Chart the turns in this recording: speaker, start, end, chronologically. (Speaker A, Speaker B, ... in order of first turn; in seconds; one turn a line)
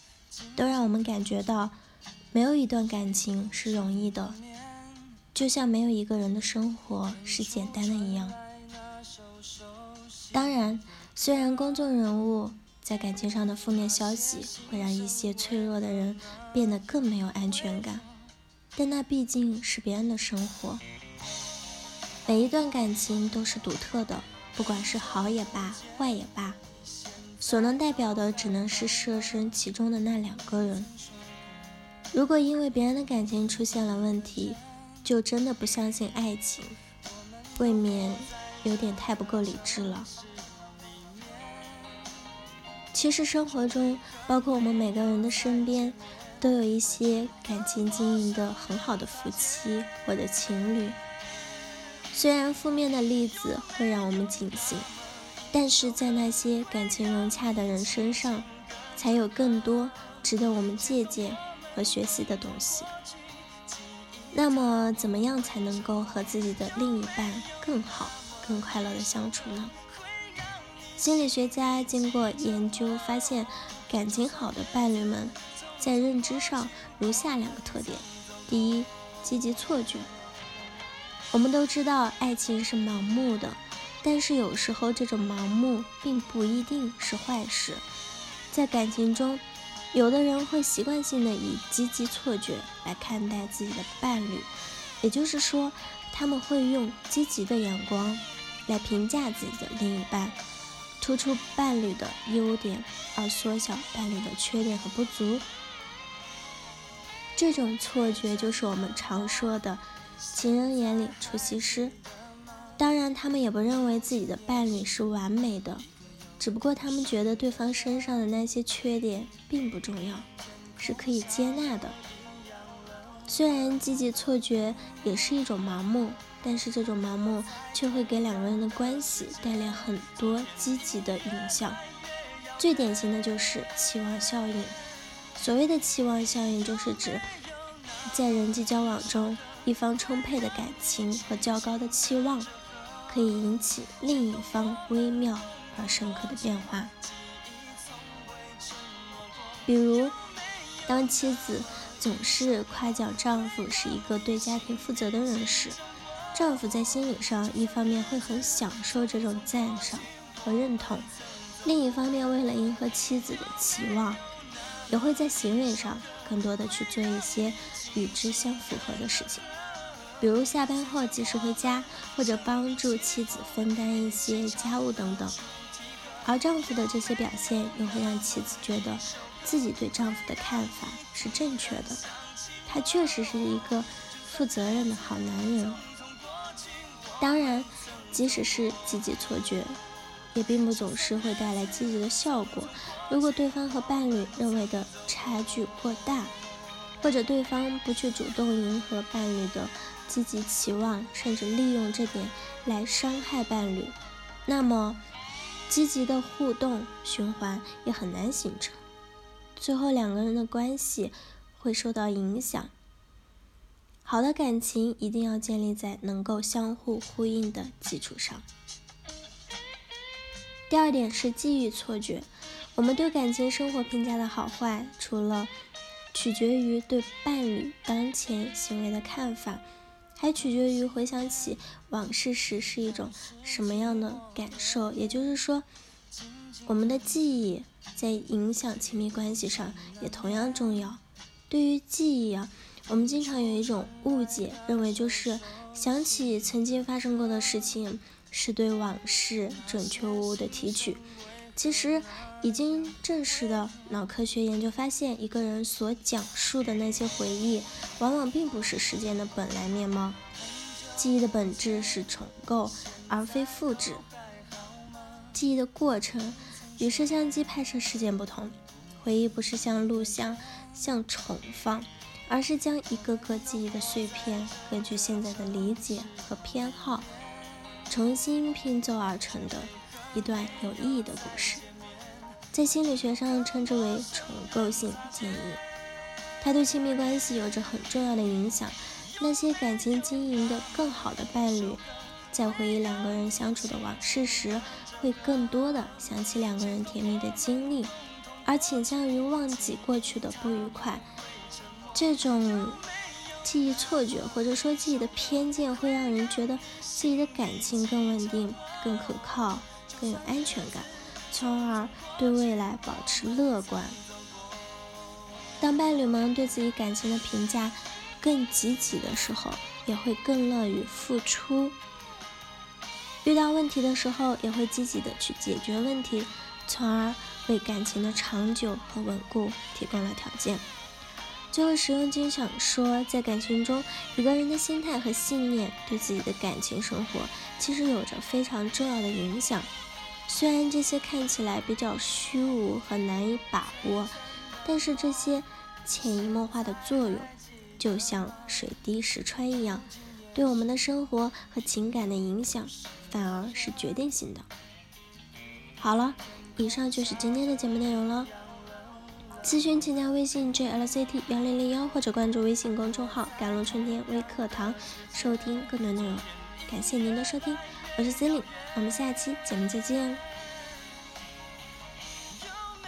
Speaker A: 0.5-1.8
Speaker A: 2.3-4.4
Speaker A: 5.3-8.4
Speaker A: 10.3-18.1
Speaker A: 18.8-20.8
Speaker A: 22.3-26.6
Speaker A: 27.4-30.9
Speaker A: 32.1-36.8
Speaker A: 37.5-40.1
Speaker A: 42.9-51.0
Speaker A: 52.1-54.9
Speaker A: 55.5-62.9
Speaker A: 64.3-69.7
Speaker A: 71.0-80.1
Speaker A: 81.3-87.8
Speaker A: 88.5-94.5
Speaker A: 95.0-100.4
Speaker A: 101.0-105.5
Speaker A: 107.4-112.0
Speaker A: 112.8-115.9
Speaker A: 116.4-120.3
Speaker A: 120.8-122.0
Speaker A: 123.3-131.8
Speaker A: 132.6-134.8
Speaker A: 135.3-137.2
Speaker A: 138.1-142.5
Speaker A: 143.1-146.9
Speaker A: 149.7-150.2
Speaker A: 150.8-155.8
Speaker A: 156.3-161.1
Speaker A: 161.6-164.2
Speaker A: 164.9-169.4
Speaker A: 170.2-175.4
Speaker A: 176.2-182.0
Speaker A: 182.7-185.8
Speaker A: 187.2-189.8
Speaker A: 190.3-196.3
Speaker A: 197.0-205.0
Speaker A: 205.7-208.8
Speaker A: 209.6-212.7
Speaker A: 214.0-218.4
Speaker A: 220.7-225.5
Speaker A: 226.1-229.6
Speaker A: 230.2-235.7
Speaker A: 236.7-251.0
Speaker A: 251.5-260.2
Speaker A: 260.9-264.1
Speaker A: 265.3-277.1
Speaker A: 277.9-281.6
Speaker A: 282.5-285.6
Speaker A: 286.4-297.9
Speaker A: 298.4-301.1
Speaker A: 301.9-302.8
Speaker A: 303.4-314.0
Speaker A: 315.6-321.8
Speaker A: 323.2-330.6
Speaker A: 331.5-339.7
Speaker A: 340.3-354.5
Speaker A: 355.8-358.3
Speaker A: 359.4-370.2